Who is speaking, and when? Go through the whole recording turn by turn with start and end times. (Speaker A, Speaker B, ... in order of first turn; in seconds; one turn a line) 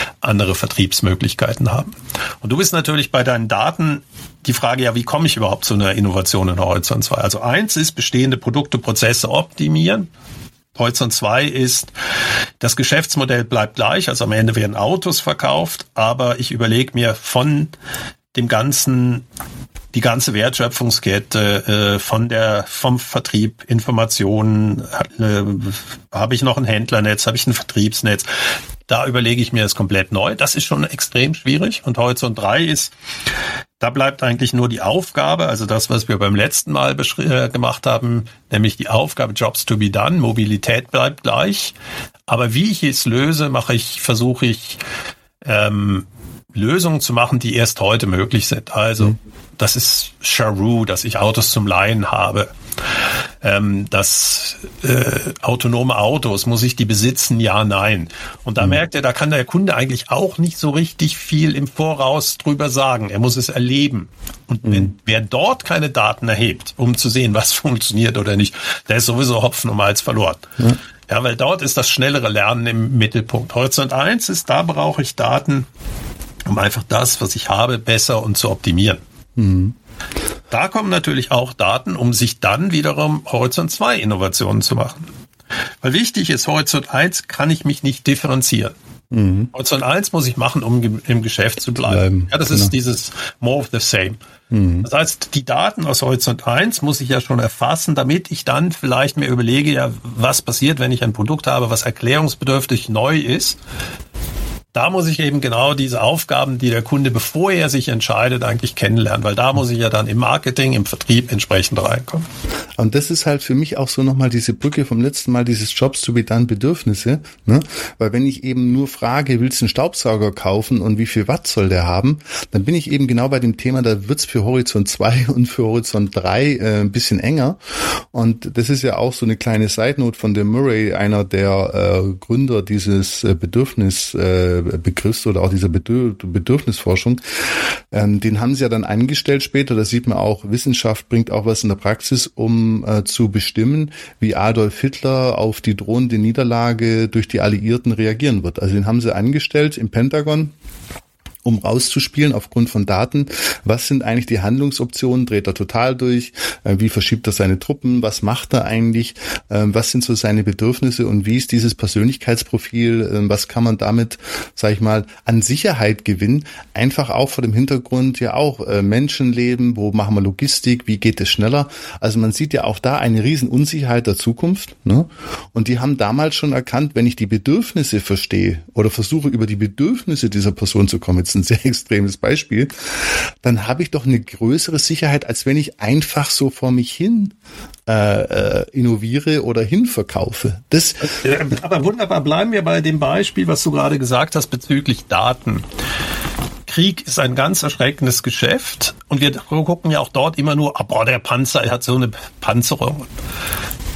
Speaker A: 0.2-10.1
Speaker A: 10.8-11.9
Speaker A: 12.6-17.7
Speaker A: 18.3-19.2
Speaker A: 19.9-28.3
Speaker A: 28.9-32.9
Speaker A: 33.8-41.8
Speaker A: 42.3-44.8
Speaker A: 45.4-52.5
Speaker A: 53.4-70.5
Speaker B: 64.7-64.9
Speaker A: 71.1-75.7
Speaker A: 76.5-79.0
Speaker B: 79.4-79.8
Speaker A: 80.5-85.0
Speaker A: 85.8-88.7
Speaker B: 89.1-89.5
Speaker A: 89.5-94.2
Speaker B: 91.9-92.7
Speaker B: 94.5-94.9
Speaker A: 94.8-103.6
Speaker A: 104.7-112.3
Speaker B: 112.8-127.6
Speaker B: 128.1-137.2
Speaker B: 137.9-150.5
Speaker B: 151.4-187.3
Speaker B: 187.9-191.2
Speaker A: 191.0-195.7
Speaker A: 196.7-203.1